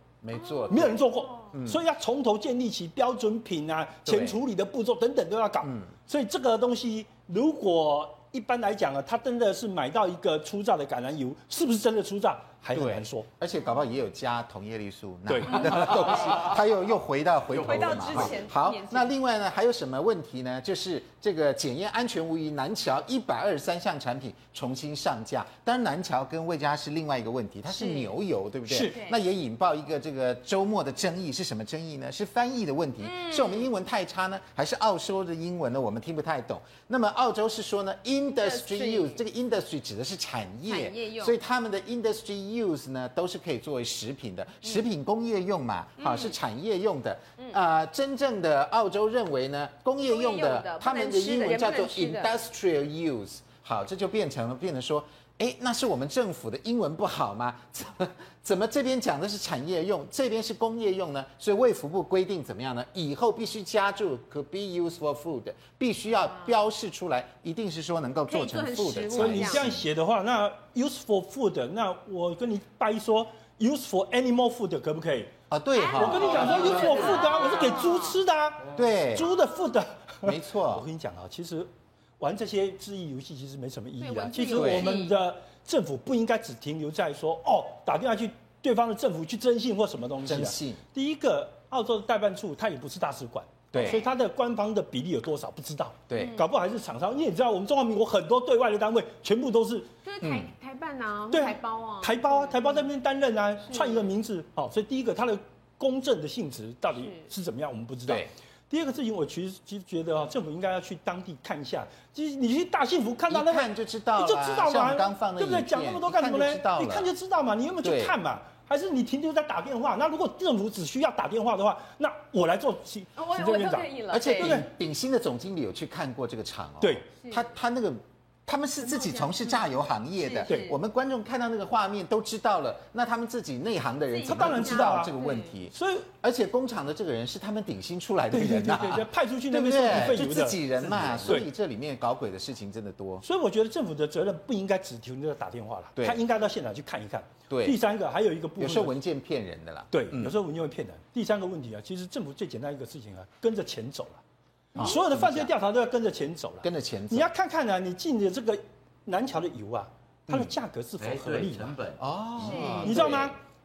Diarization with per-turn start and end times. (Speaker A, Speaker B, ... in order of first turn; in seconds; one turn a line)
Speaker A: 0.2-1.0
Speaker B: 0.4-1.5
Speaker C: 0.7-13.3
Speaker A: 1.5-1.8
Speaker A: 4.0-4.4
Speaker A: 5.6-5.9
Speaker A: 12.7-69.8
Speaker C: 15.3-16.3
Speaker D: 15.9-16.4
Speaker D: 17.5-18.4
Speaker B: 17.6-19.1
Speaker B: 27.8-28.1
Speaker C: 28.7-29.0
Speaker B: 28.8-29.2
Speaker B: 33.0-33.7
Speaker B: 38.3-39.2
Speaker B: 40.7-41.4
Speaker B: 46.0-46.3
Speaker B: 50.1-52.3
Speaker B: 68.3-69.6
Speaker C: 69.1-75.3
Speaker A: 75.5-77.3
Speaker B: 75.7-78.2
Speaker C: 75.9-99.9
Speaker D: 76.3-76.7
Speaker A: 78.7-79.3
Speaker B: 79.2-79.5
Speaker A: 80.2-80.8
Speaker B: 84.0-85.1
Speaker A: 84.5-84.9
Speaker A: 90.2-90.8
Speaker A: 93.7-94.0
Speaker A: 96.1-96.4
Speaker B: 96.1-96.4
Speaker B: 100.0-102.7
Speaker A: 100.2-100.5
Speaker C: 101.3-124.7
Speaker B: 103.7-104.0
Speaker A: 113.3-117.1
Speaker A: 117.8-118.2
Speaker B: 123.2-124.6
Speaker A: 124.1-143.2
Speaker C: 126.8-127.0
Speaker B: 128.8-129.6
Speaker B: 130.2-130.7
Speaker C: 130.5-130.8
Speaker B: 134.1-135.5
Speaker C: 134.2-135.1
Speaker C: 135.7-136.1
Speaker C: 138.3-141.5
Speaker D: 140.9-141.3
Speaker C: 143.2-149.0
Speaker A: 145.9-146.2
Speaker A: 147.5-147.8
Speaker A: 148.6-150.3
Speaker C: 149.9-154.2
Speaker A: 154.8-155.5
Speaker C: 154.8-161.7
Speaker A: 156.6-157.3
Speaker D: 161.0-163.3
Speaker A: 162.0-163.2
Speaker B: 162.4-162.8
Speaker C: 162.8-163.4